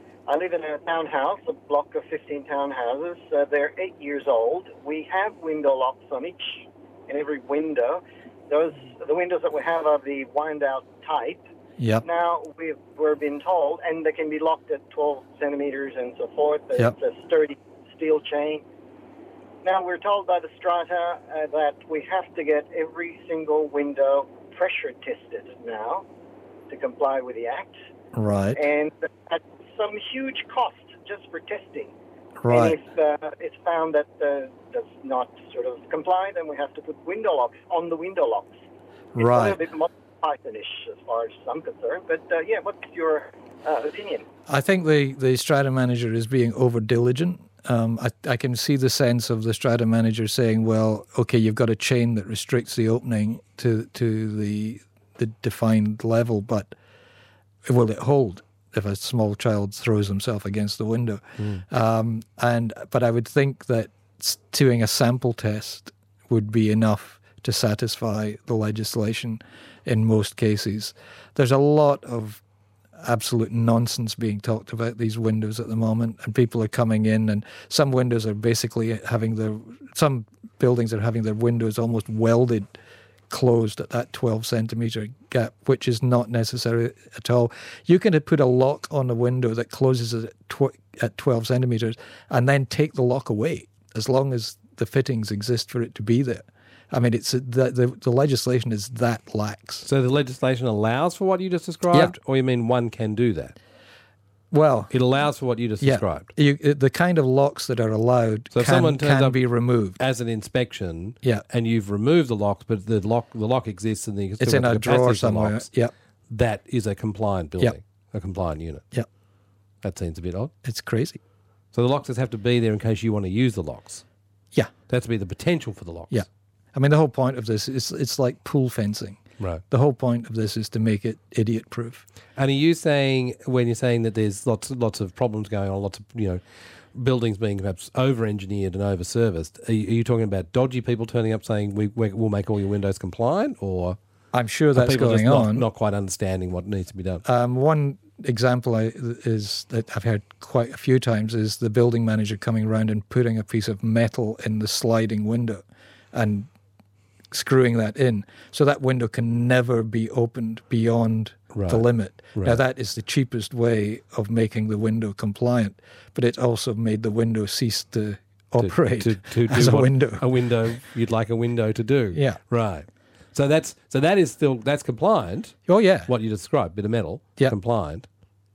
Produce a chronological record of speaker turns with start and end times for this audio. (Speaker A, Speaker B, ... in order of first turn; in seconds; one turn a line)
Speaker A: 0.3-11.4
Speaker B: 11.8-12.0
Speaker A: 12.0-18.6
Speaker A: 19.6-26.1
Speaker A: 26.7-27.8
Speaker B: 28.1-28.6
Speaker A: 28.6-31.9
Speaker B: 32.4-32.8
Speaker A: 32.5-38.5
Speaker B: 39.1-39.6
Speaker A: 39.2-44.2
Speaker B: 44.5-56.7
Speaker B: 57.7-72.4
Speaker C: 61.4-61.6
Speaker B: 73.0-82.7
Speaker B: 83.3-99.9
Speaker C: 99.8-103.5
Speaker B: 104.5-104.9
Speaker C: 104.9-106.3
Speaker B: 105.8-110.0
Speaker C: 108.5-109.4
Speaker C: 110.0-115.7
Speaker B: 114.4-115.9
Speaker C: 116.3-118.8
Speaker C: 119.8-120.5
Speaker B: 120.6-121.2
Speaker C: 121.7-124.0
Speaker C: 124.9-126.2
Speaker B: 126.1-132.0
Speaker C: 132.4-136.4
Speaker C: 136.9-144.0
Speaker B: 144.3-145.7
Speaker C: 144.8-147.2
Speaker B: 147.2-155.6
Speaker B: 156.1-156.5
Speaker B: 157.3-170.2
Speaker C: 161.5-162.6
Speaker C: 168.6-178.1
Speaker B: 172.1-172.4
Speaker B: 175.7-176.1